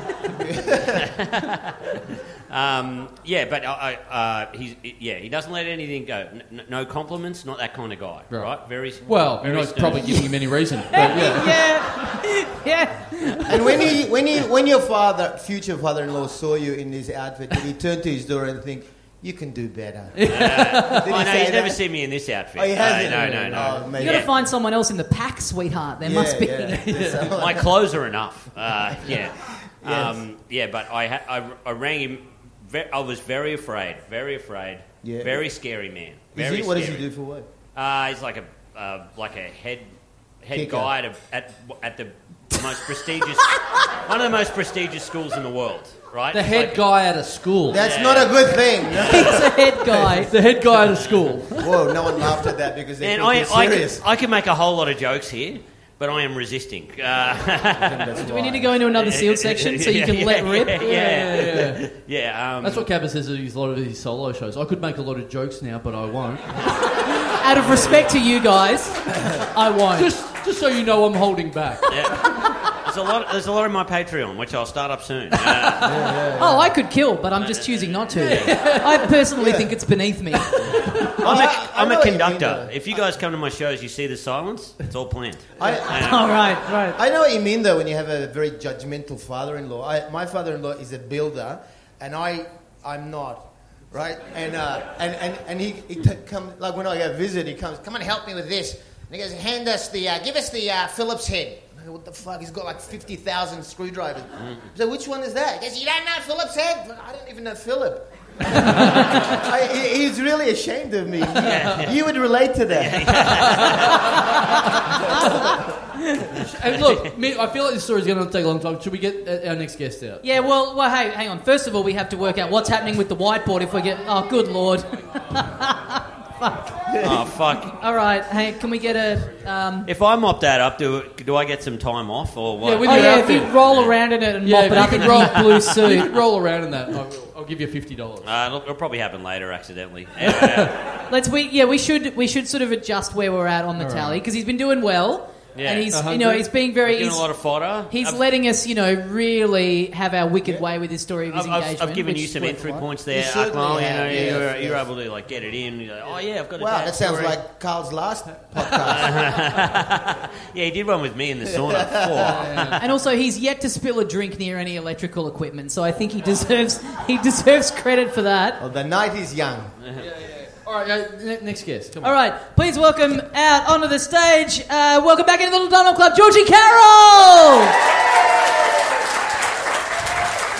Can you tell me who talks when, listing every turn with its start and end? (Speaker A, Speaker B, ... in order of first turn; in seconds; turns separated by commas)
Speaker A: 0.3-1.1, Speaker B: 0.9-10.3, Speaker C: 8.3-11.7, Speaker D: 10.9-13.6, Speaker A: 13.4-21.8, Speaker C: 20.1-21.1, Speaker B: 20.3-24.3, Speaker A: 22.5-24.3, Speaker C: 23.0-23.9, Speaker D: 24.0-26.9, Speaker A: 26.0-27.8, Speaker C: 26.5-27.3, Speaker B: 27.3-37.0, Speaker A: 29.8-30.2, Speaker A: 35.0-35.5, Speaker A: 36.3-37.5, Speaker B: 37.7-46.8, Speaker A: 40.5-40.9, Speaker C: 46.3-47.8, Speaker A: 47.7-50.3, Speaker B: 47.7-49.5, Speaker D: 49.0-50.3, Speaker C: 50.3-51.7, Speaker B: 50.9-51.4, Speaker A: 51.6-54.0, Speaker B: 53.0-58.1, Speaker A: 57.8-58.7, Speaker D: 58.2-61.0, Speaker B: 58.9-62.9, Speaker C: 60.8-61.8, Speaker C: 62.6-66.6, Speaker D: 66.9-70.1, Speaker C: 67.7-68.0, Speaker C: 69.9-71.9, Speaker B: 71.9-76.0, Speaker A: 75.8-76.7, Speaker D: 76.3-80.8, Speaker B: 77.4-78.6, Speaker C: 78.1-79.1, Speaker A: 79.3-79.7, Speaker C: 80.4-81.2, Speaker A: 81.2-83.0, Speaker B: 81.2-86.4, Speaker A: 85.6-86.4, Speaker D: 85.7-87.0, Speaker A: 86.9-113.6, Speaker B: 104.4-104.7, Speaker C: 108.6-109.0, Speaker B: 111.3-112.0, Speaker C: 111.4-111.9, Speaker B: 112.7-114.3, Speaker C: 113.2-114.2, Speaker A: 115.1-115.6, Speaker C: 116.3-120.2, Speaker B: 116.8-117.1, Speaker D: 120.2-127.0, Speaker A: 127.0-127.2, Speaker B: 127.0-127.8, Speaker D: 127.7-129.9, Speaker B: 129.8-134.0, Speaker C: 132.6-133.5, Speaker D: 132.8-136.1, Speaker C: 134.4-138.3, Speaker B: 135.0-135.7, Speaker B: 138.2-140.8, Speaker C: 140.2-140.8, Speaker D: 141.1-147.3, Speaker C: 143.8-144.2, Speaker B: 145.5-145.9, Speaker C: 145.9-146.5, Speaker B: 146.7-148.2, Speaker D: 147.9-152.8, Speaker B: 151.3-157.4, Speaker A: 153.1-154.9, Speaker A: 156.6-159.2, Speaker B: 158.6-162.8, Speaker A: 161.5-162.6, Speaker C: 162.3-162.8, Speaker D: 162.8-168.6, Speaker A: 168.6-169.7, Speaker B: 169.8-170.1, Speaker C: 170.0-172.1, Speaker D: 172.0-177.8